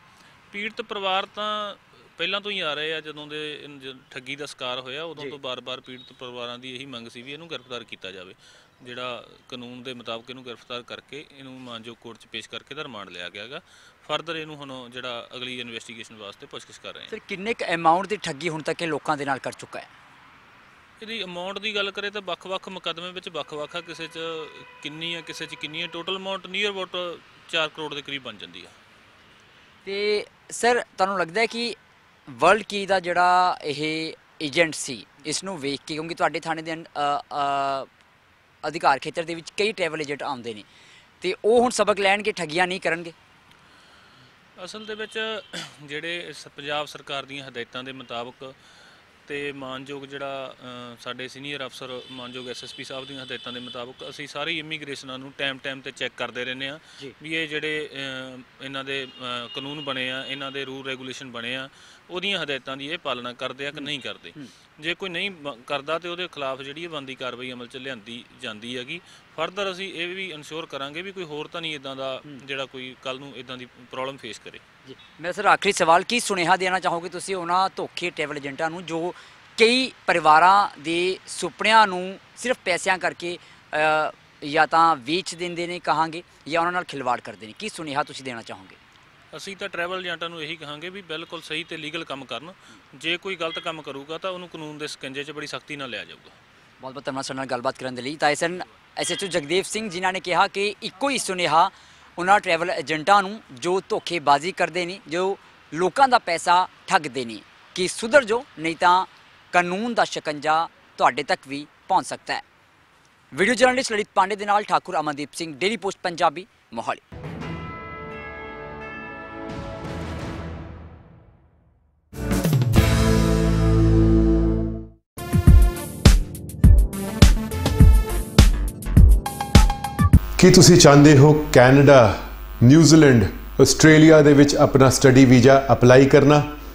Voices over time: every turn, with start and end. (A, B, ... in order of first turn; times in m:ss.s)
0:00.5-0:17.1 A
0:17.1-0:19.9 B
0:21.0-0:28.7 A
0:29.8-0:31.8 B
0:32.3-0:37.9 B
0:38.6-0:40.6 B
0:41.2-0:43.1 B
0:44.6-0:48.6 A
0:49.2-1:14.6 A
1:03.7-1:04.5 B
1:14.8-1:28.8 B
1:29.3-1:36.4 A
1:36.8-1:52.4 B
1:53.3-1:57.0 B
2:10.4-2:16.5 C